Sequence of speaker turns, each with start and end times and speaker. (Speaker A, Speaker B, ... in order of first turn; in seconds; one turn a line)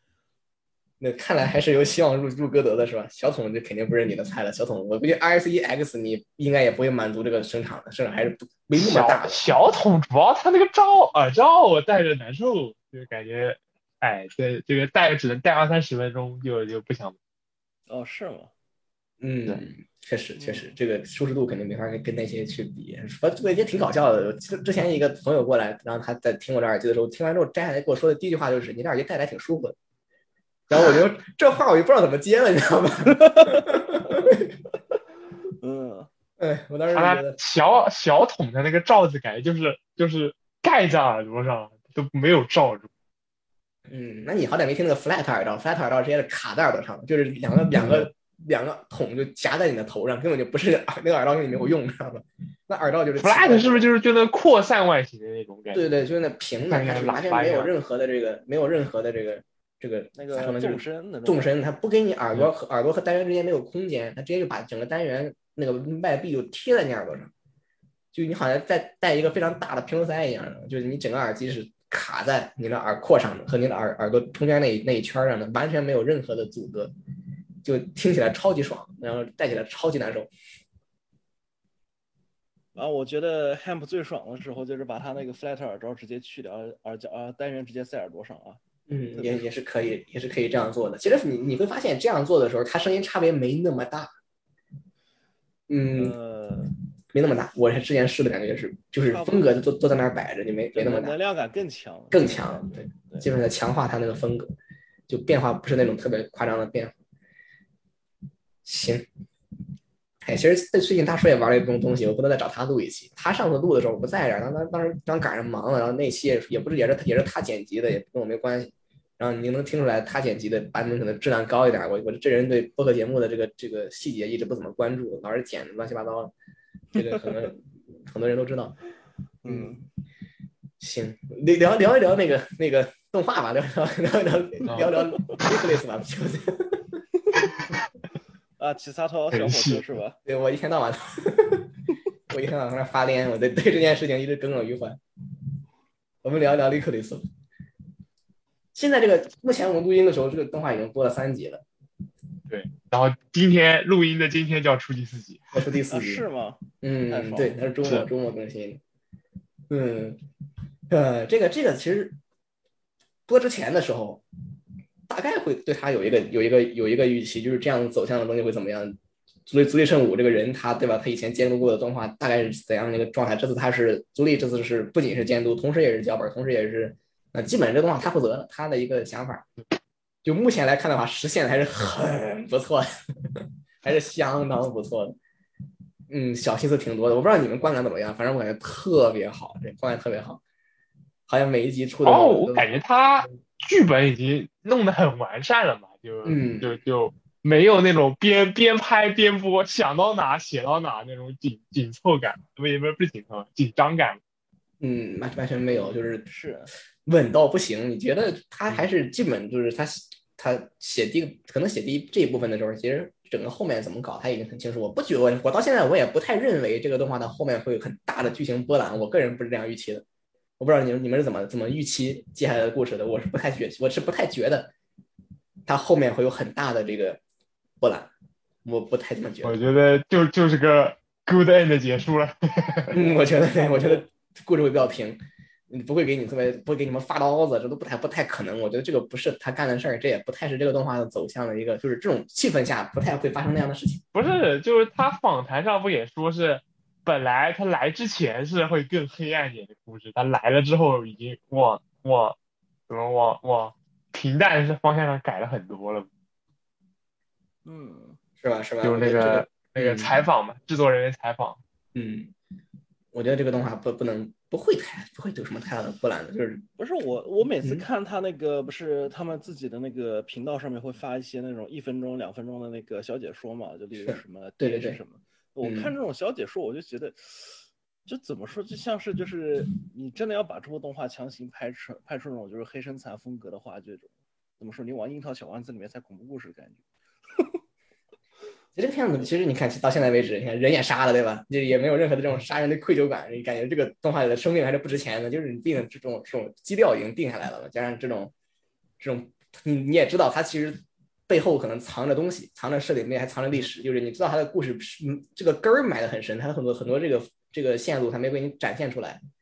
Speaker A: 1.0-9.5
Speaker B: 8.8-17.2
Speaker C: 17.9-18.5
Speaker A: 19.2-29.8
Speaker C: 20.4-20.7
Speaker A: 30.7-34.5
Speaker C: 33.1-34.3
Speaker C: 35.6-36.1
Speaker A: 36.4-37.4
Speaker B: 36.9-42.9
Speaker A: 43.9-53.9
Speaker B: 47.8-48.1
Speaker B: 53.2-55.9
Speaker A: 55.7-67.3
Speaker B: 56.7-57.7
Speaker C: 60.1-61.5
Speaker A: 68.1-76.9
Speaker A: 77.6-80.3
Speaker C: 82.8-88.6
Speaker A: 88.9-94.2
Speaker C: 89.1-89.5
Speaker A: 95.7-96.2
Speaker C: 95.9-96.7
Speaker A: 97.1-101.2
Speaker C: 99.0-99.5
Speaker C: 100.7-103.3
Speaker A: 102.1-104.5
Speaker A: 105.1-106.9
Speaker A: 108.7-109.1
Speaker A: 110.2-126.3
Speaker A: 126.9-128.8
Speaker C: 129.4-129.8
Speaker A: 129.5-129.8
Speaker A: 130.8-137.0
Speaker B: 134.7-135.0
Speaker C: 138.6-140.2
Speaker B: 139.3-139.9
Speaker A: 140.3-141.8
Speaker A: 142.3-145.0
Speaker A: 146.2-147.3
Speaker A: 148.8-151.6
Speaker B: 152.5-155.6
Speaker A: 155.5-156.3
Speaker C: 155.9-157.7
Speaker A: 156.8-158.8
Speaker A: 159.7-160.2
Speaker A: 160.9-162.2
Speaker A: 163.3-164.2
Speaker A: 165.1-179.5
Speaker A: 180.2-185.2
Speaker A: 186.1-190.4
Speaker A: 191.3-192.8
Speaker B: 192.1-204.2
Speaker A: 196.2-196.8
Speaker A: 204.8-206.3
Speaker C: 206.3-206.7
Speaker A: 207.1-220.1
Speaker A: 220.6-224.7
Speaker A: 225.7-227.2
Speaker A: 227.8-228.1
Speaker A: 228.7-229.6
Speaker B: 229.4-233.0
Speaker A: 232.9-244.0
Speaker C: 233.5-234.0
Speaker B: 244.1-252.4
Speaker B: 252.9-256.1
Speaker C: 257.6-258.2
Speaker A: 258.4-260.3
Speaker B: 258.8-261.6
Speaker A: 261.9-262.3
Speaker A: 263.1-266.6
Speaker C: 266.8-286.8
Speaker A: 274.1-275.0
Speaker A: 275.6-275.9
Speaker A: 288.8-298.3
Speaker A: 299.0-309.2